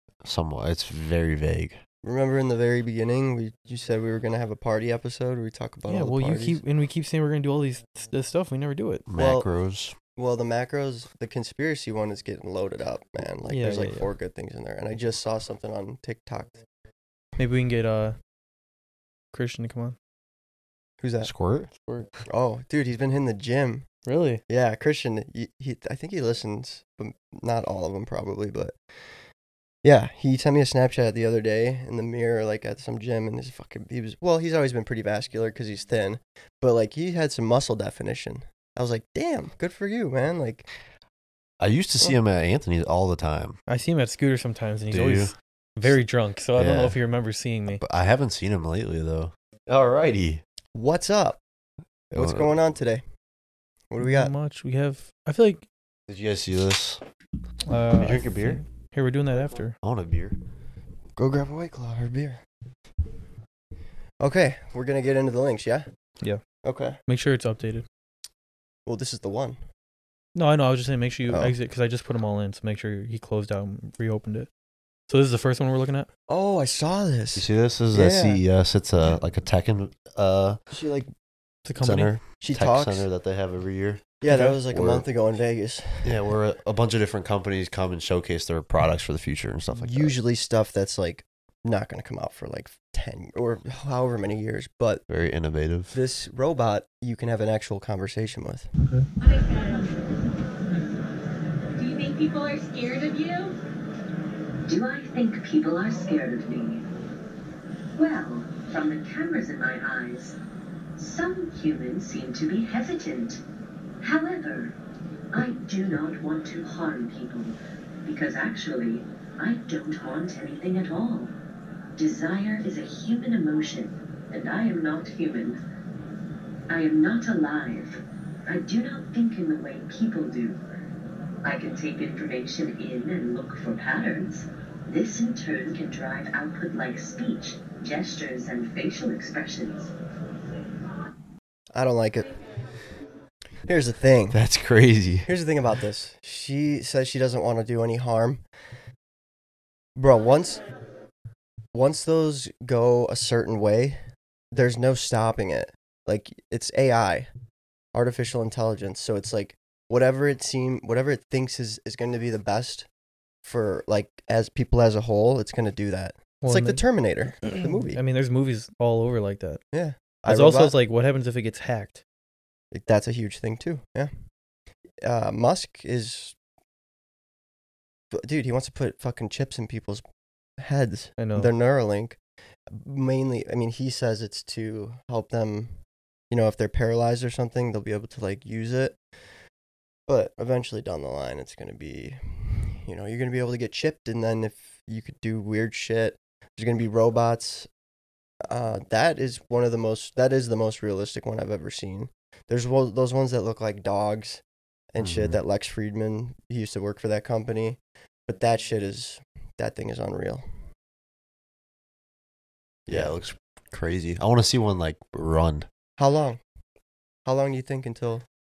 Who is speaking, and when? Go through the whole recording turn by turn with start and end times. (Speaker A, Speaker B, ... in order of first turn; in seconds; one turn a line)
Speaker A: 0.2-1.8
Speaker B: 2.0-6.6
Speaker C: 5.9-9.1
Speaker A: 9.1-10.0
Speaker B: 9.2-9.5
Speaker B: 10.2-16.6
Speaker C: 13.5-14.1
Speaker C: 17.4-18.2
Speaker C: 19.3-20.0
Speaker B: 21.0-21.3
Speaker A: 21.2-21.7
Speaker B: 22.3-23.9
Speaker C: 24.1-24.4
Speaker B: 24.5-28.8
Speaker B: 29.8-40.7
Speaker A: 41.6-43.6
Speaker C: 43.7-47.8
Speaker A: 44.9-46.0
Speaker A: 46.6-47.0
Speaker A: 47.7-50.4
Speaker B: 50.7-51.4
Speaker A: 52.1-52.6
Speaker B: 52.1-53.0
Speaker B: 53.9-54.3
Speaker C: 54.0-55.6
Speaker A: 56.1-57.0
Speaker C: 57.6-59.8
Speaker A: 57.9-58.6
Speaker A: 59.8-60.4
Speaker B: 61.2-62.4
Speaker B: 64.2-65.9
Speaker B: 66.6-67.0
Speaker C: 67.1-67.9
Speaker B: 68.9-69.6
Speaker C: 70.3-74.5
Speaker B: 71.3-71.6
Speaker C: 75.1-76.1
Speaker B: 76.3-78.4
Speaker A: 77.3-80.6
Speaker B: 80.7-81.1
Speaker C: 81.7-82.2
Speaker A: 81.8-85.1
Speaker B: 82.4-83.1
Speaker B: 84.2-86.3
Speaker C: 84.3-84.6
Speaker A: 86.0-90.2
Speaker B: 89.7-95.0
Speaker A: 95.1-96.0
Speaker B: 95.9-98.7
Speaker D: 99.2-100.0
Speaker D: 101.8-103.6
Speaker E: 104.7-106.8
Speaker E: 108.0-110.4
Speaker E: 111.0-113.4
Speaker E: 114.0-114.8
Speaker E: 115.3-121.3
Speaker E: 122.0-125.6
Speaker E: 126.7-130.6
Speaker E: 131.4-139.9
Speaker B: 141.7-142.3
Speaker B: 143.7-144.4
Speaker A: 144.3-145.3
Speaker B: 145.2-148.4
Speaker B: 150.0-150.6
Speaker B: 151.7-154.0
Speaker B: 154.5-157.3
Speaker B: 157.9-162.9
Speaker B: 163.4-168.0
Speaker C: 166.4-166.8
Speaker C: 167.4-169.6
Speaker B: 169.7-170.8
Speaker C: 170.3-172.0
Speaker B: 172.7-174.1
Speaker B: 175.0-176.4
Speaker B: 178.1-180.0
Speaker B: 180.6-185.8
Speaker C: 181.2-181.5
Speaker B: 186.3-189.0
Speaker B: 190.1-197.7
Speaker B: 198.5-204.4
Speaker B: 204.9-210.4
Speaker A: 205.0-205.4
Speaker B: 212.9-213.2
Speaker A: 212.9-215.7
Speaker B: 216.0-216.4
Speaker B: 217.2-218.2